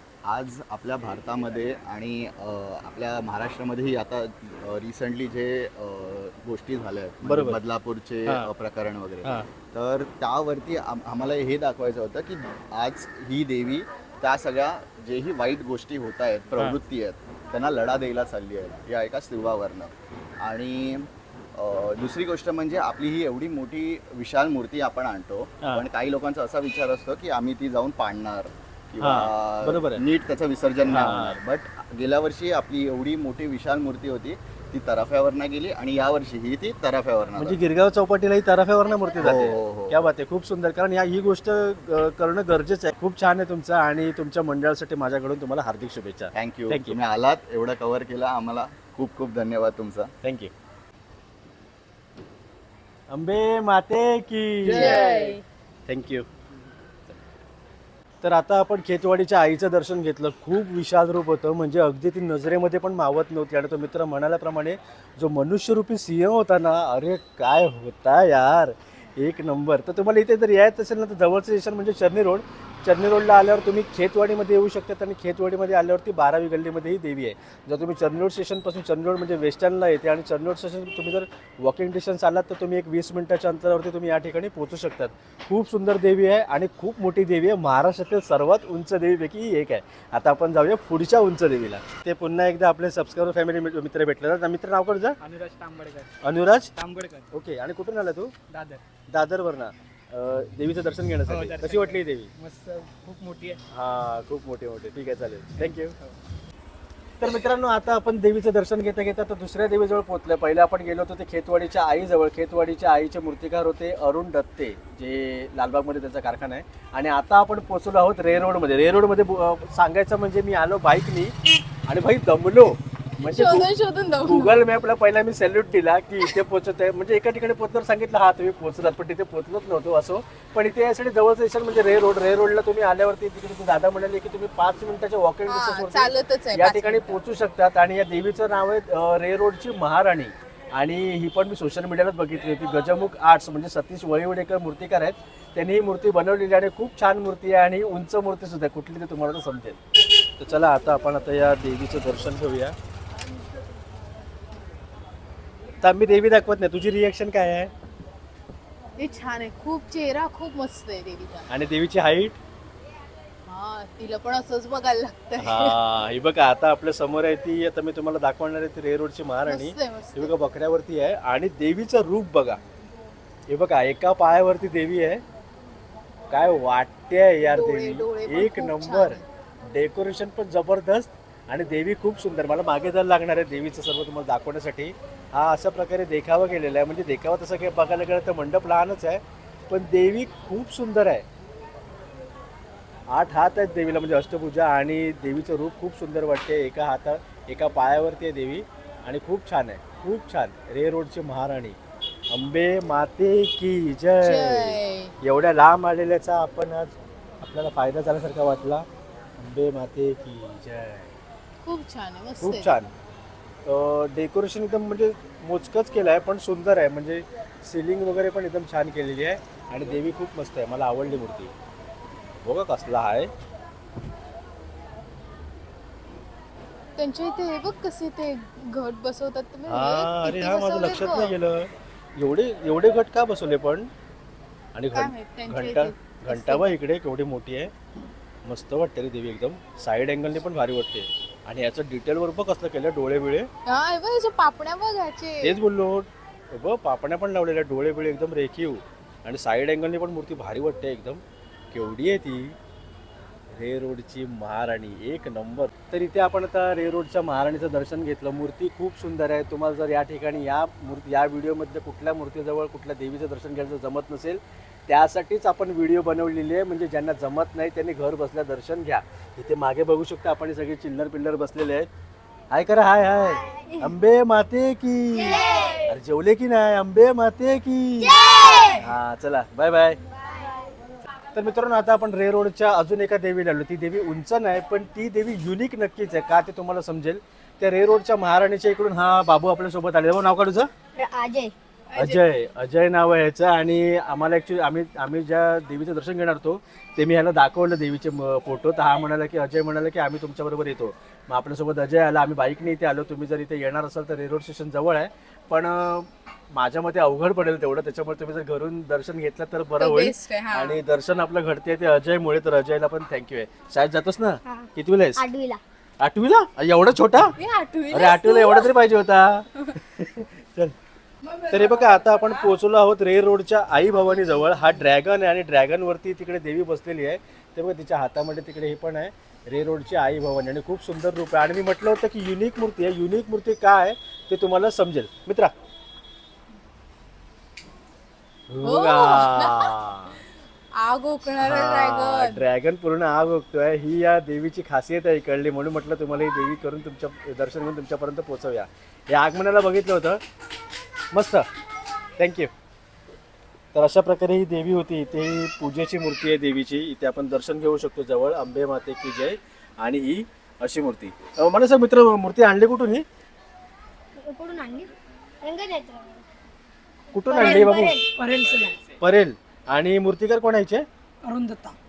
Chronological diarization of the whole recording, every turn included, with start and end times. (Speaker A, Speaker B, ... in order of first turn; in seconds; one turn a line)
Speaker A: 0.3-37.6
Speaker B: 7.2-7.6
Speaker B: 29.0-30.0
Speaker B: 30.9-31.4
Speaker B: 37.4-47.0
Speaker A: 39.2-40.0
Speaker A: 46.4-50.1
Speaker B: 50.2-50.5
Speaker B: 53.1-55.1
Speaker C: 54.7-55.4
Speaker A: 54.8-55.3
Speaker B: 55.9-56.3
Speaker B: 58.2-95.2
Speaker D: 95.2-96.1
Speaker B: 96.2-96.7
Speaker D: 96.8-97.3
Speaker B: 97.3-98.3
Speaker D: 98.5-98.8
Speaker B: 99.1-102.3
Speaker D: 101.3-103.6
Speaker B: 103.7-106.0
Speaker B: 107.2-121.3
Speaker B: 121.9-123.7
Speaker C: 123.2-124.6
Speaker B: 124.3-149.8
Speaker C: 135.5-137.2
Speaker B: 150.4-152.7
Speaker B: 155.8-157.7
Speaker C: 159.0-161.5
Speaker B: 161.5-162.4
Speaker C: 163.5-165.8
Speaker B: 165.4-172.6
Speaker C: 169.5-170.3
Speaker B: 173.5-175.2
Speaker B: 176.3-191.2
Speaker C: 177.5-179.2
Speaker B: 193.1-201.8
Speaker B: 202.3-208.9
Speaker C: 204.2-205.1
Speaker B: 209.4-211.2
Speaker C: 211.7-212.8
Speaker B: 212.4-212.9
Speaker B: 213.7-221.5
Speaker B: 222.4-223.3
Speaker C: 227.0-231.4
Speaker B: 229.7-233.9
Speaker B: 234.8-237.7
Speaker C: 234.9-236.8
Speaker B: 238.5-243.5
Speaker C: 243.7-245.6
Speaker B: 245.4-252.6
Speaker B: 253.5-271.9
Speaker B: 272.5-280.0
Speaker E: 273.5-273.8
Speaker E: 275.2-275.9
Speaker E: 278.1-278.8
Speaker B: 281.3-290.7
Speaker E: 291.0-291.5
Speaker C: 291.9-292.2
Speaker B: 292.0-315.3
Speaker C: 309.8-310.8
Speaker E: 314.4-315.6
Speaker B: 316.0-317.4
Speaker C: 317.4-318.7
Speaker B: 317.9-320.8
Speaker B: 321.5-335.5
Speaker B: 338.5-340.2
Speaker C: 338.6-339.8
Speaker C: 340.7-342.4
Speaker B: 341.4-350.2
Speaker B: 351.1-351.5
Speaker B: 352.2-352.5
Speaker B: 353.7-363.1
Speaker E: 364.2-364.9
Speaker E: 365.4-366.2
Speaker B: 367.1-368.0
Speaker E: 367.3-368.8
Speaker D: 368.2-368.7
Speaker B: 369.0-370.9
Speaker E: 371.3-371.6
Speaker D: 371.5-371.7